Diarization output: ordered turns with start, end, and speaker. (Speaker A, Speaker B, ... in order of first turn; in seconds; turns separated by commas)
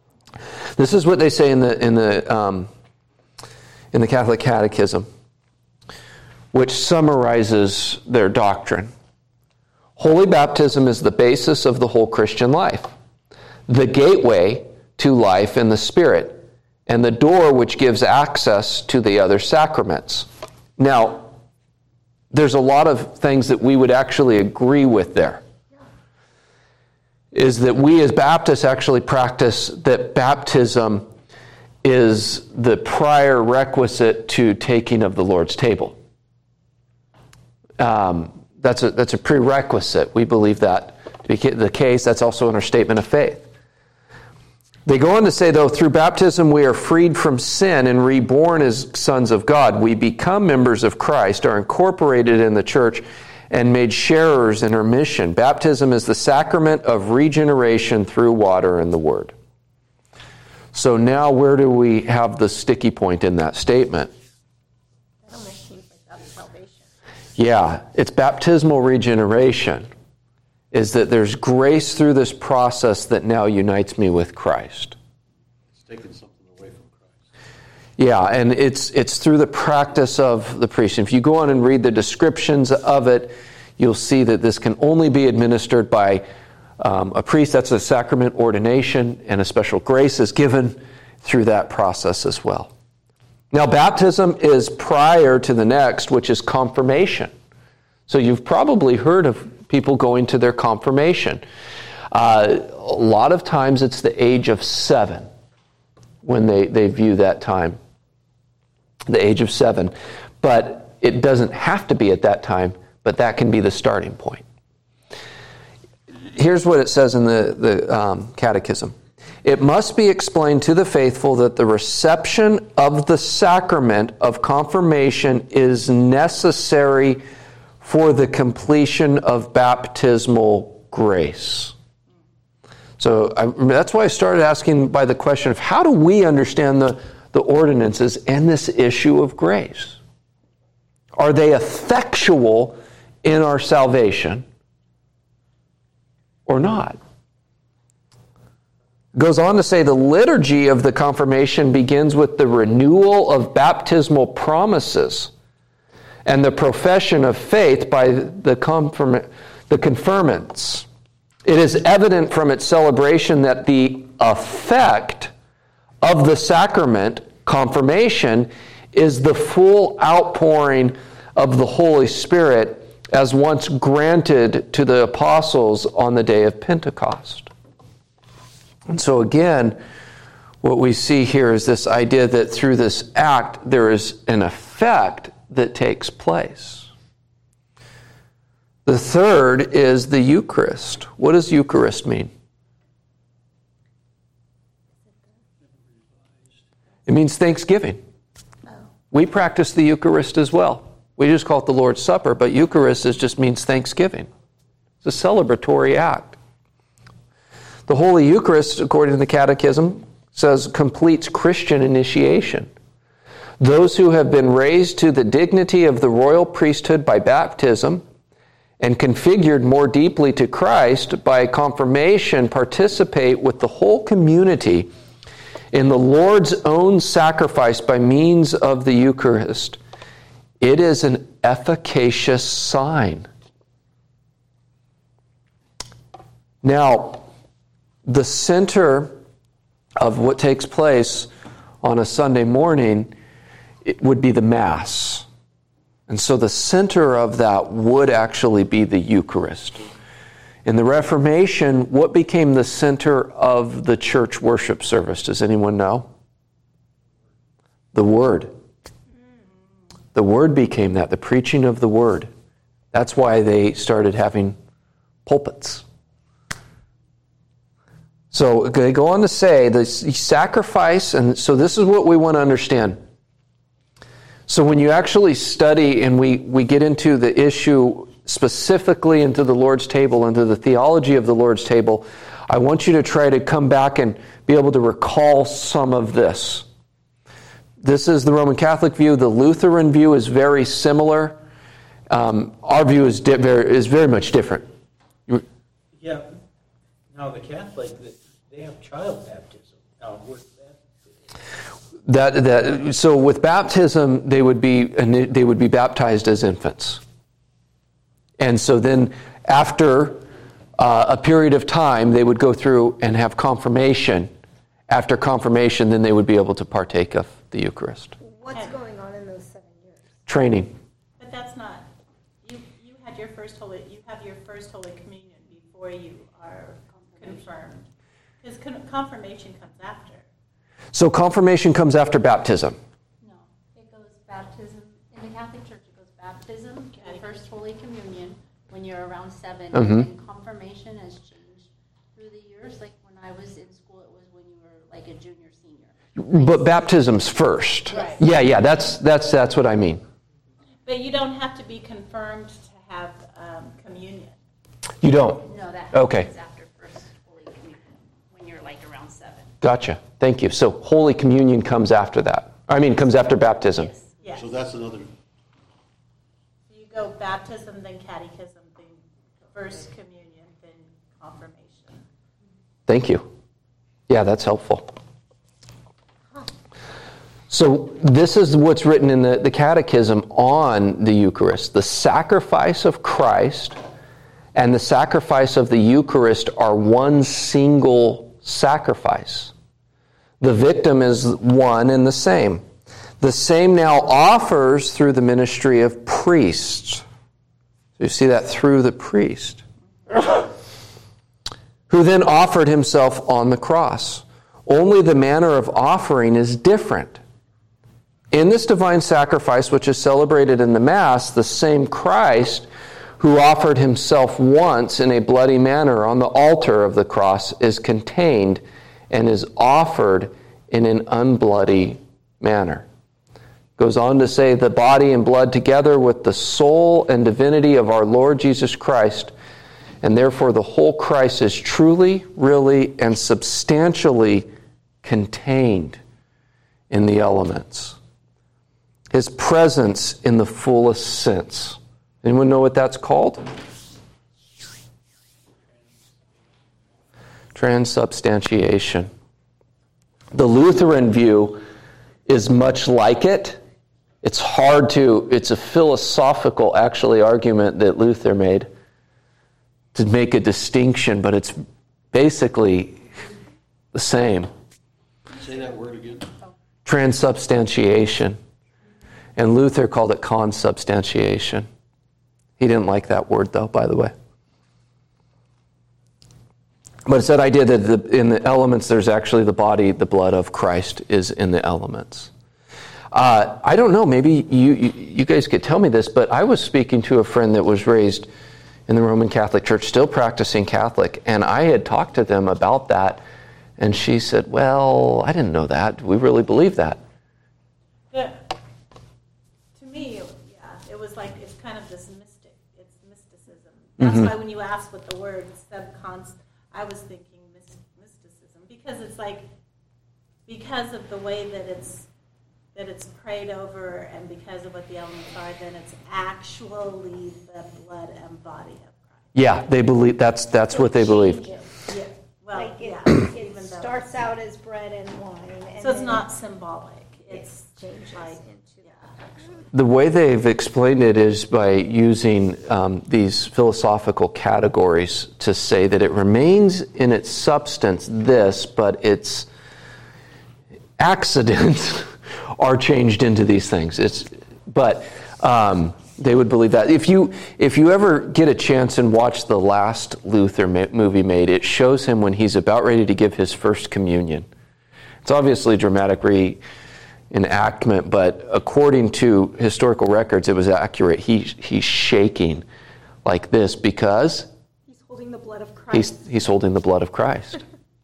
Speaker A: 0.8-2.7, Speaker A: 3.9-5.1, Speaker A: 6.5-8.9, Speaker A: 10.0-12.9, Speaker A: 13.7-21.3, Speaker A: 22.3-25.4, Speaker A: 27.3-31.1, Speaker A: 31.8-36.0, Speaker A: 37.8-43.5, Speaker A: 44.9-59.3, Speaker A: 60.7-64.1, Speaker B: 65.2-66.8, Speaker A: 67.4-69.9, Speaker A: 70.7-75.0, Speaker C: 75.7-77.3, Speaker A: 78.0-86.2, Speaker A: 86.8-92.7, Speaker A: 93.5-97.3, Speaker A: 98.1-101.4, Speaker A: 102.1-105.3, Speaker A: 106.2-107.8, Speaker A: 109.1-114.4, Speaker A: 116.3-127.2, Speaker A: 127.8-131.7, Speaker A: 133.0-140.0, Speaker A: 141.2-144.4, Speaker A: 146.5-147.0, Speaker A: 149.1-155.3, Speaker A: 156.2-160.8, Speaker A: 161.4-165.3, Speaker A: 166.0-177.5, Speaker A: 178.9-179.8, Speaker A: 180.6-186.9, Speaker A: 188.8-192.3, Speaker B: 195.0-195.4, Speaker A: 197.1-198.0, Speaker A: 199.1-204.3, Speaker A: 205.0-206.4, Speaker A: 207.9-212.7, Speaker A: 213.6-218.0, Speaker A: 218.8-224.9, Speaker A: 225.7-229.8, Speaker A: 230.6-233.3, Speaker A: 236.6-237.2, Speaker A: 238.0-239.2, Speaker A: 240.0-241.3, Speaker A: 241.8-243.1, Speaker A: 243.8-245.2, Speaker A: 246.1-249.8, Speaker A: 250.6-256.1, Speaker A: 257.9-258.5, Speaker A: 260.1-262.3, Speaker A: 262.9-264.6, Speaker A: 265.2-265.8, Speaker A: 268.3-273.0, Speaker A: 274.5-286.6, Speaker A: 287.8-291.4, Speaker A: 292.1-294.7, Speaker D: 296.0-296.3, Speaker D: 297.1-300.8, Speaker A: 302.0-307.0, Speaker A: 308.4-310.2, Speaker A: 310.8-314.3, Speaker A: 314.9-318.1, Speaker B: 318.2-320.1, Speaker A: 320.3-320.7, Speaker E: 321.2-321.9, Speaker E: 322.4-327.9, Speaker F: 326.9-327.4, Speaker E: 328.4-330.2, Speaker A: 330.9-332.8, Speaker F: 333.2-346.8, Speaker E: 337.0-337.2, Speaker A: 339.7-340.1, Speaker A: 346.2-350.0, Speaker F: 347.9-348.2, Speaker E: 347.9-348.2, Speaker E: 350.8-354.4, Speaker A: 355.0-356.3, Speaker F: 355.4-359.5, Speaker A: 359.6-363.9, Speaker E: 364.2-364.5, Speaker C: 364.3-365.1, Speaker E: 366.7-372.0, Speaker A: 372.9-373.2, Speaker A: 374.1-374.9, Speaker A: 377.5-383.8, Speaker A: 384.5-389.5, Speaker A: 390.4-392.6, Speaker A: 393.2-397.0, Speaker A: 398.0-399.6, Speaker A: 401.9-407.2, Speaker A: 408.3-412.7, Speaker A: 413.2-422.9, Speaker A: 423.8-429.3, Speaker A: 430.0-434.5, Speaker A: 435.0-436.0, Speaker A: 436.9-438.0, Speaker A: 439.1-443.4, Speaker A: 447.5-449.1, Speaker A: 450.3-451.6, Speaker A: 452.3-453.6, Speaker A: 454.2-458.7, Speaker A: 459.9-461.6, Speaker A: 462.1-463.0, Speaker A: 463.9-464.5, Speaker C: 465.3-466.3, Speaker A: 466.8-468.4, Speaker A: 469.4-471.7, Speaker A: 472.6-474.1, Speaker A: 477.1-482.3, Speaker A: 483.1-488.3, Speaker A: 488.9-493.2, Speaker A: 493.8-497.0, Speaker E: 498.1-498.5, Speaker E: 499.8-509.5, Speaker A: 504.0-504.3, Speaker E: 510.5-512.1, Speaker E: 512.7-519.2, Speaker A: 519.3-521.5, Speaker B: 520.7-521.8, Speaker E: 521.9-524.2, Speaker B: 522.5-526.3, Speaker E: 525.8-529.1, Speaker B: 527.3-528.9, Speaker A: 529.7-539.5, Speaker A: 541.0-554.5, Speaker A: 555.2-556.6, Speaker A: 557.3-562.6, Speaker A: 563.2-564.5, Speaker B: 564.9-566.2, Speaker A: 565.9-567.6